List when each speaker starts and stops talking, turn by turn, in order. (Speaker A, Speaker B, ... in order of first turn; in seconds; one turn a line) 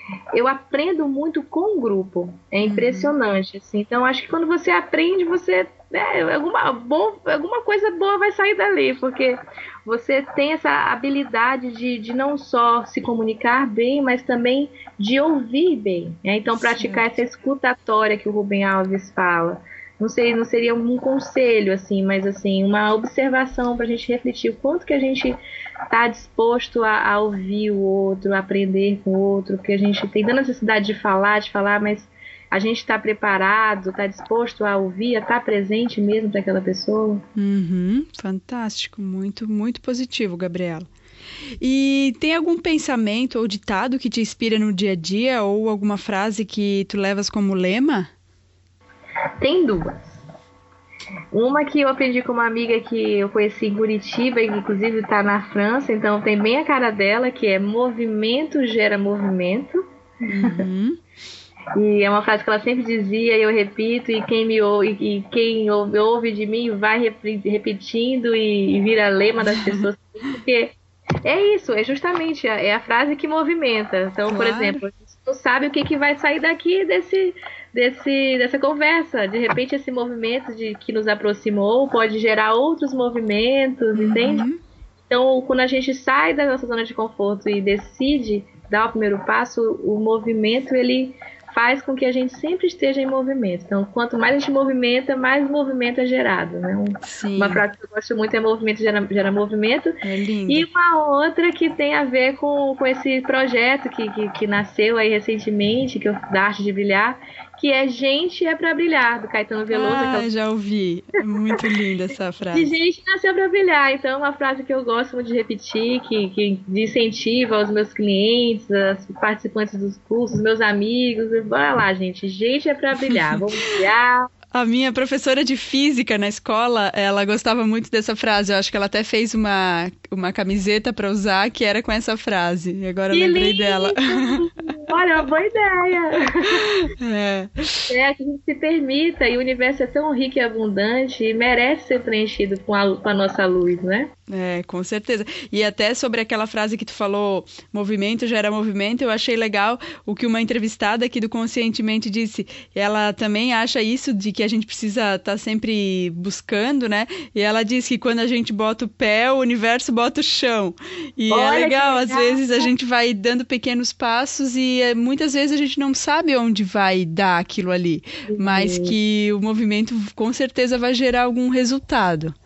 Speaker A: 0.3-37.2
Speaker B: 2.6-3.1
Speaker B: 16.8-17.1
Speaker B: 37.4-40.9
Speaker B: 41.6-48.1
Speaker A: 49.4-50.2
Speaker A: 51.3-59.8
Speaker B: 60.3-61.0
Speaker A: 61.8-84.5
Speaker B: 69.6-69.9
Speaker B: 74.3-74.8
Speaker B: 84.0-84.6
Speaker A: 85.1-110.3
Speaker B: 97.0-97.6
Speaker B: 100.0-100.7
Speaker B: 109.7-112.8
Speaker A: 112.5-124.3
Speaker B: 123.1-123.4
Speaker B: 124.5-134.5
Speaker A: 133.1-136.7
Speaker B: 136.6-137.9
Speaker A: 137.9-144.1
Speaker B: 144.3-172.3
Speaker A: 161.3-162.7
Speaker A: 168.3-168.9